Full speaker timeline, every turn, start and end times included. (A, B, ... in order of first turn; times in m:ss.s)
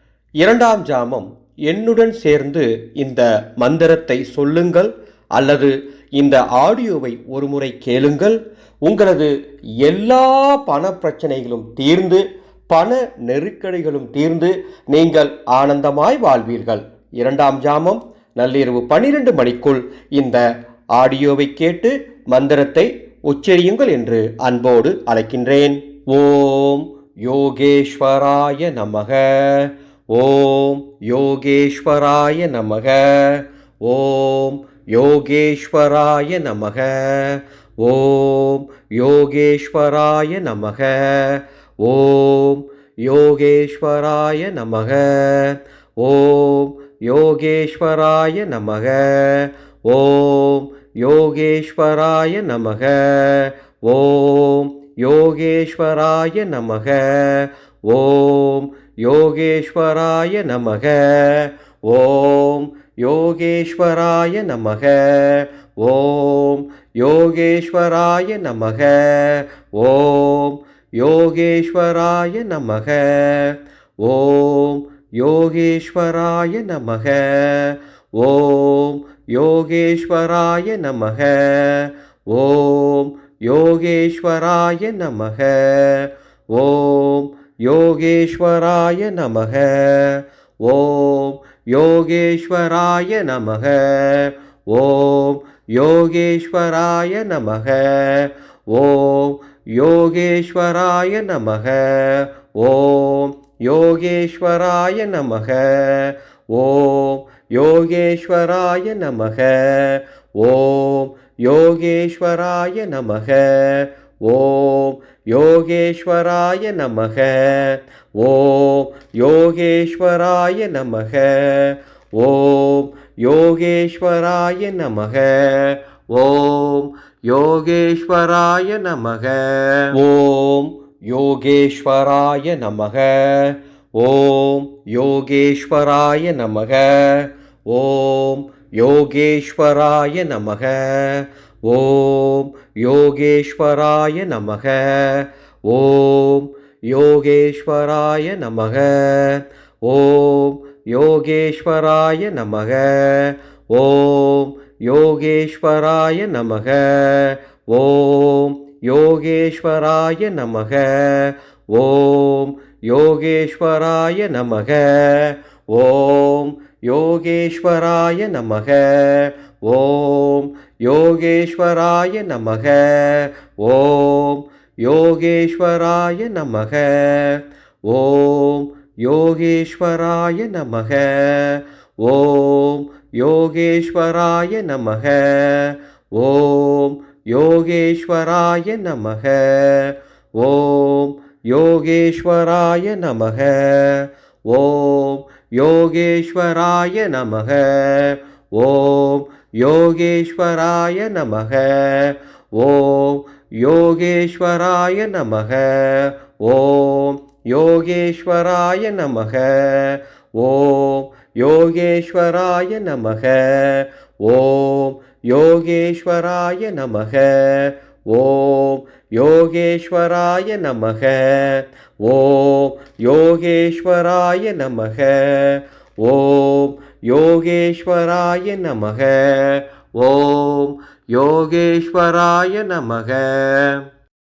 0:00.4-3:53.8 A